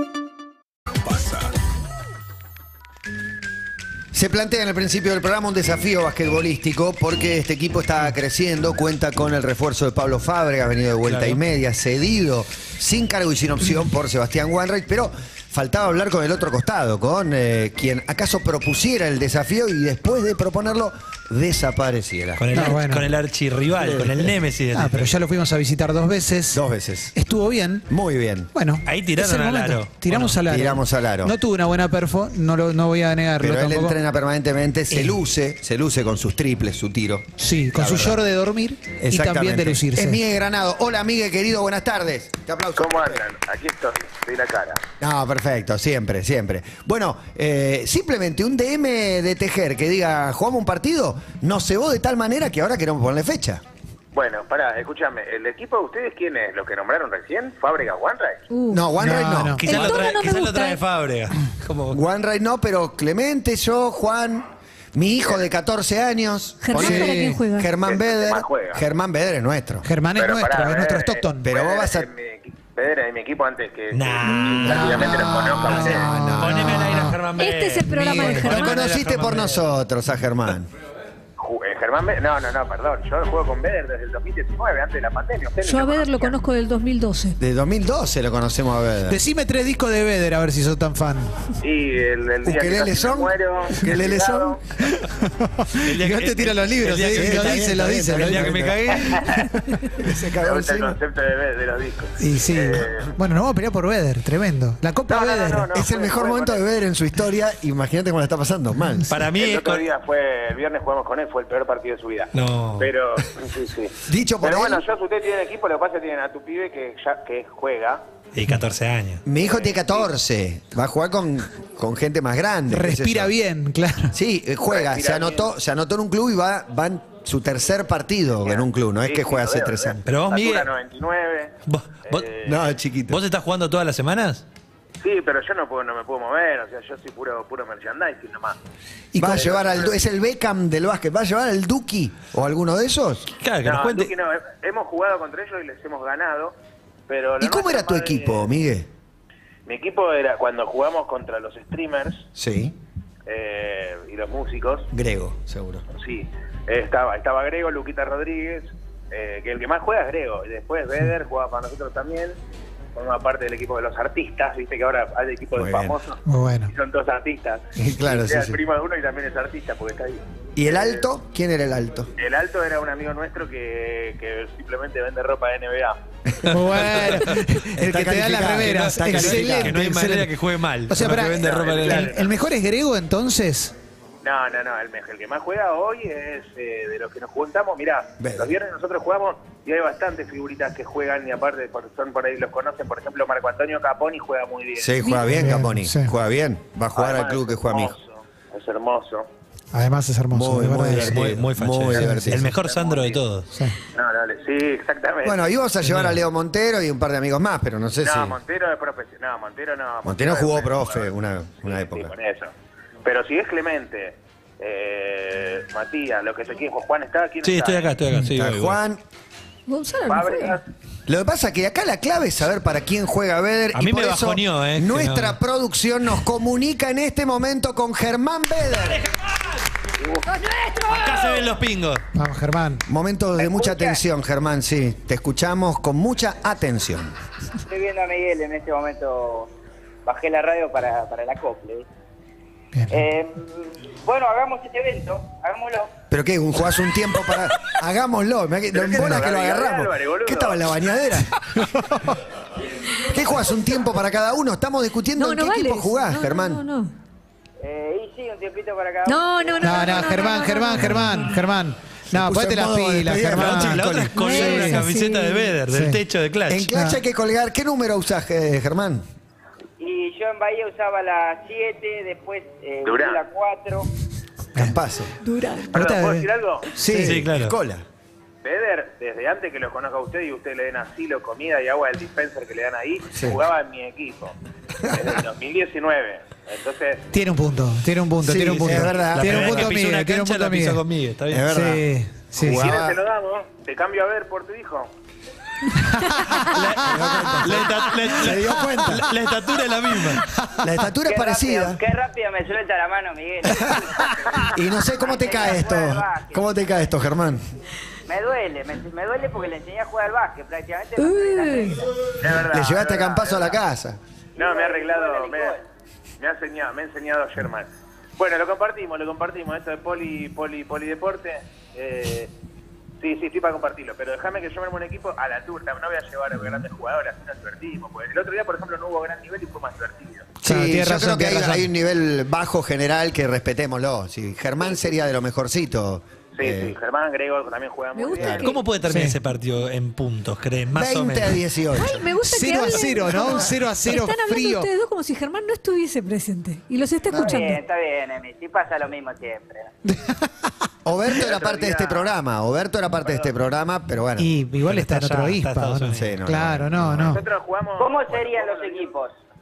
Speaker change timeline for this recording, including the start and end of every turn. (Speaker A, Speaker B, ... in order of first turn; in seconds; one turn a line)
Speaker A: 4.1-22.4
Speaker B: 11.1-11.4
Speaker B: 22.4-25.1
Speaker C: 22.5-23.1
Speaker A: 23.8-24.3
Speaker C: 24.7-26.6
Speaker A: 26.5-27.1
Speaker C: 27.1-27.9
Speaker A: 27.9-28.5
Speaker C: 28.5-34.0
Speaker B: 28.9-30.4
Speaker A: 30.5-31.3
Speaker A: 33.4-38.2
Speaker C: 34.9-35.2
Speaker C: 37.4-40.2
Speaker A: 39.0-43.2
Speaker D: 42.8-44.8
Speaker A: 45.0-53.6
Speaker D: 54.1-58.4
Speaker E: 58.5-58.9
Speaker A: 58.7-59.9
Speaker C: 59.0-59.8
Speaker B: 59.6-62.0
Speaker E: 59.6-60.8
Speaker A: 61.9-69.9
Speaker D: 65.2-65.5
Speaker E: 66.6-67.7
Speaker C: 66.7-67.4
Speaker D: 67.8-68.8
Speaker C: 69.8-71.5
Speaker D: 70.2-76.1
Speaker A: 71.4-72.1
Speaker B: 73.9-79.7
Speaker E: 74.2-75.0
Speaker C: 75.7-77.2
Speaker A: 75.8-77.0
Speaker E: 77.3-78.8
Speaker C: 77.8-78.5
Speaker A: 78.4-80.7
Speaker D: 81.4-86.4
Speaker E: 85.6-87.4
Speaker A: 87.4-89.2
Speaker C: 89.1-91.3
Speaker D: 91.6-94.6
Speaker A: 92.4-94.6
Speaker C: 95.0-100.1
Speaker B: 95.8-99.5
Speaker A: 97.1-99.2
Speaker A: 99.9-101.0
Speaker D: 100.4-103.1
Speaker C: 102.2-105.7
Speaker D: 105.1-106.6
Speaker A: 105.7-109.0
Speaker C: 108.9-109.2
Speaker B: 109.1-109.9
Speaker D: 109.4-118.0
Speaker B: 112.3-112.9
Speaker A: 114.0-114.8
Speaker B: 118.3-119.2
Speaker A: 119.3-123.3
Speaker D: 119.3-120.1
Speaker C: 122.7-124.2
Speaker A: 124.1-130.0
Speaker D: 124.7-125.5
Speaker D: 128.4-131.5
Speaker B: 130.1-130.7
Speaker B: 131.7-132.3
Speaker D: 132.1-132.7
Speaker A: 132.4-133.2
Speaker B: 133.1-134.4
Speaker D: 135.0-138.6
Speaker A: 139.2-143.3
Speaker D: 139.2-140.0
Speaker B: 143.4-144.1
Speaker D: 143.6-146.6
Speaker D: 147.1-148.5
Speaker A: 147.4-148.9
Speaker D: 149.7-152.2
Speaker A: 152.4-152.8
Speaker D: 153.3-154.9
Speaker A: 154.9-155.8
Speaker D: 155.9-162.3
Speaker D: 163.0-171.1
Speaker A: 165.6-166.0
Speaker C: 166.3-166.7
Speaker A: 167.8-168.6
Speaker A: 170.6-172.1
Speaker D: 172.2-176.0
Speaker A: 176.3-176.6
Speaker C: 176.5-180.3
Speaker B: 176.9-177.1
Speaker A: 177.8-179.8
Speaker B: 178.7-182.1
Speaker C: 180.9-183.7
Speaker D: 181.1-182.4
Speaker D: 184.2-195.0
Speaker A: 188.2-188.5
Speaker A: 194.8-197.9
Speaker E: 195.0-195.4
Speaker C: 195.2-196.1
Speaker D: 197.0-199.3
Speaker C: 199.7-201.2
Speaker A: 200.3-202.5
Speaker B: 200.8-203.5
Speaker D: 201.9-203.3
Speaker C: 201.9-202.4
Speaker C: 203.5-203.8
Speaker D: 203.9-205.4
Speaker A: 205.2-208.4
Speaker D: 208.0-211.1
Speaker A: 210.1-212.1
Speaker D: 211.6-212.5
Speaker D: 213.1-218.0
Speaker B: 217.4-218.8
Speaker A: 218.2-219.0
Speaker E: 219.7-220.6
Speaker D: 220.1-220.7
Speaker A: 221.1-229.1
Speaker B: 223.7-225.4
Speaker D: 230.0-230.2
Speaker E: 230.3-231.5
Speaker B: 230.9-232.0
Speaker C: 232.1-232.8
Speaker A: 232.9-237.1
Speaker F: 233.4-234.0
Speaker F: 237.7-239.5
Speaker F: 240.1-241.9
Speaker F: 242.9-245.9
Speaker A: 246.1-251.3
Speaker D: 248.7-250.6
Speaker C: 251.5-251.8
Speaker A: 253.1-256.6
Speaker E: 255.2-256.9
Speaker F: 257.6-260.3
Speaker E: 259.1-261.3
Speaker C: 259.6-264.9
Speaker A: 262.1-263.9
Speaker B: 263.3-266.7
Speaker E: 264.1-265.6
Speaker C: 265.6-266.0
Speaker A: 266.5-269.0
Speaker C: 266.7-267.0
Speaker F: 269.8-273.9
Speaker D: 272.9-273.2
Speaker A: 274.6-275.1
Speaker E: 275.2-275.8
Speaker C: 275.7-277.2
Speaker D: 275.7-276.7
Speaker A: 276.8-277.9
Speaker B: 276.9-277.6
Speaker D: 278.4-284.4
Speaker D: 284.9-287.0
Speaker C: 287.1-290.8
Speaker A: 288.2-289.8
Speaker B: 288.4-291.5
Speaker A: 291.3-291.9
Speaker C: 291.5-292.7
Speaker A: 292.4-293.0
Speaker D: 292.5-294.9
Speaker C: 295.8-297.6
Speaker B: 296.5-300.3
Speaker A: 296.7-299.1
Speaker C: 300.1-300.4
Speaker A: 300.6-301.8
Speaker F: 301.1-304.0
Speaker A: 304.4-307.4
Speaker F: 305.0-306.5
Speaker F: 308.1-311.9
Speaker E: 311.0-311.8
Speaker D: 312.2-313.6
Speaker A: 312.4-314.0
Speaker D: 314.4-315.6
Speaker F: 314.4-315.6
Speaker D: 316.2-322.3
Speaker D: 323.0-330.3
Speaker A: 330.4-336.8
Speaker C: 330.4-331.7
Speaker D: 336.4-338.5
Speaker E: 337.9-338.7
Speaker A: 338.2-338.5
Speaker B: 338.4-341.4
Speaker C: 338.8-339.2
Speaker A: 340.8-342.1
Speaker E: 341.7-347.6
Speaker C: 342.2-344.7
Speaker F: 347.1-349.7
Speaker C: 349.9-350.5
Speaker A: 350.9-354.3
Speaker D: 351.1-352.1
Speaker D: 353.1-353.3
Speaker C: 354.2-357.2
Speaker B: 354.6-356.2
Speaker A: 355.9-357.2
Speaker D: 357.0-359.0
Speaker F: 357.8-359.1